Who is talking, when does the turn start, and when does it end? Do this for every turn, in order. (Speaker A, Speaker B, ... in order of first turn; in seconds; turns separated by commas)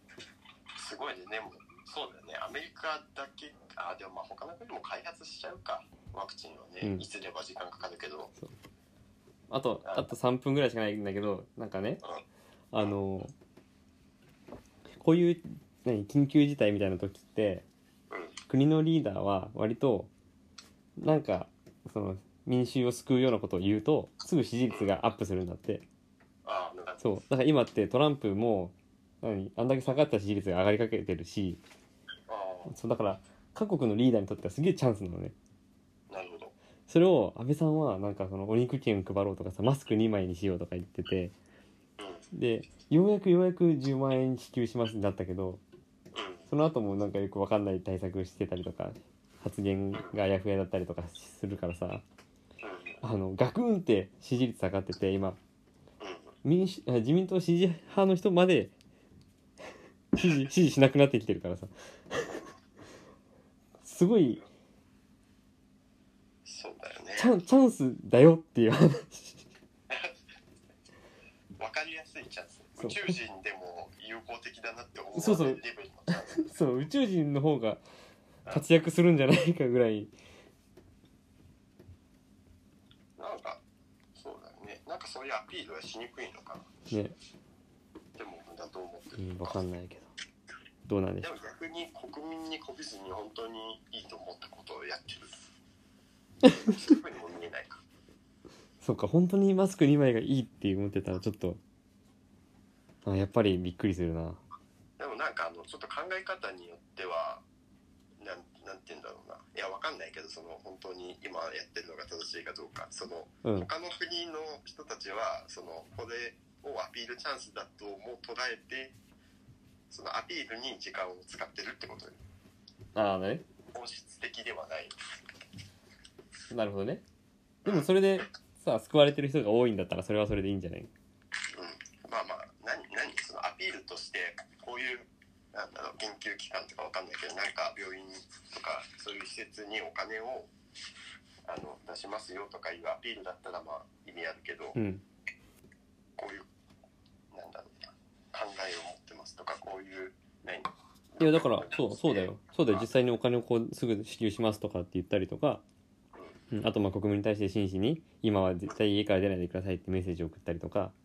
Speaker A: 0.8-8.3, Speaker B: 9.5-12.0, Speaker B: 12.7-13.3, Speaker B: 15.0-17.6, Speaker A: 18.1-18.4, Speaker B: 18.5-20.1, Speaker B: 21.0-25.8, Speaker A: 26.4-27.1, Speaker B: 27.0-31.6, Speaker A: 32.3-32.7, Speaker B: 32.7-35.3, Speaker A: 36.1-36.5, Speaker B: 36.9-41.3, Speaker A: 42.0-42.2, Speaker B: 42.3-45.6, Speaker A: 46.1-46.5, Speaker B: 46.5-52.0, Speaker A: 52.6-53.0, Speaker B: 53.0-55.4, Speaker A: 56.0-56.3, Speaker B: 56.4-58.7, Speaker B: 60.1-62.3, Speaker B: 63.8-64.4, Speaker A: 66.4-67.3, Speaker B: 67.2-69.4, Speaker A: 69.9-70.2, Speaker A: 71.6-76.5, Speaker B: 72.8-73.2, Speaker B: 75.1-75.6, Speaker B: 76.1-77.8, Speaker B: 78.5-80.1, Speaker A: 83.2-83.6, Speaker A: 84.1-86.7, Speaker A: 88.2-89.6, Speaker B: 89.2-90.1, Speaker B: 90.9-91.3, Speaker A: 91.2-95.4, Speaker B: 96.4-96.8, Speaker A: 96.6-97.8, Speaker B: 98.8-101.6, Speaker B: 103.0-104.4, Speaker A: 105.0-107.4, Speaker A: 108.2-118.9, Speaker A: 119.9-122.2, Speaker B: 122.9-123.4, Speaker A: 123.7-124.9, Speaker B: 126.5-127.0, Speaker A: 127.6-127.9, Speaker B: 127.6-130.9, Speaker A: 131.5-140.5, Speaker A: 141.4-144.8, Speaker B: 144.7-145.0, Speaker A: 146.2-146.4, Speaker A: 147.3-152.8, Speaker B: 151.2-155.6, Speaker B: 156.5-160.9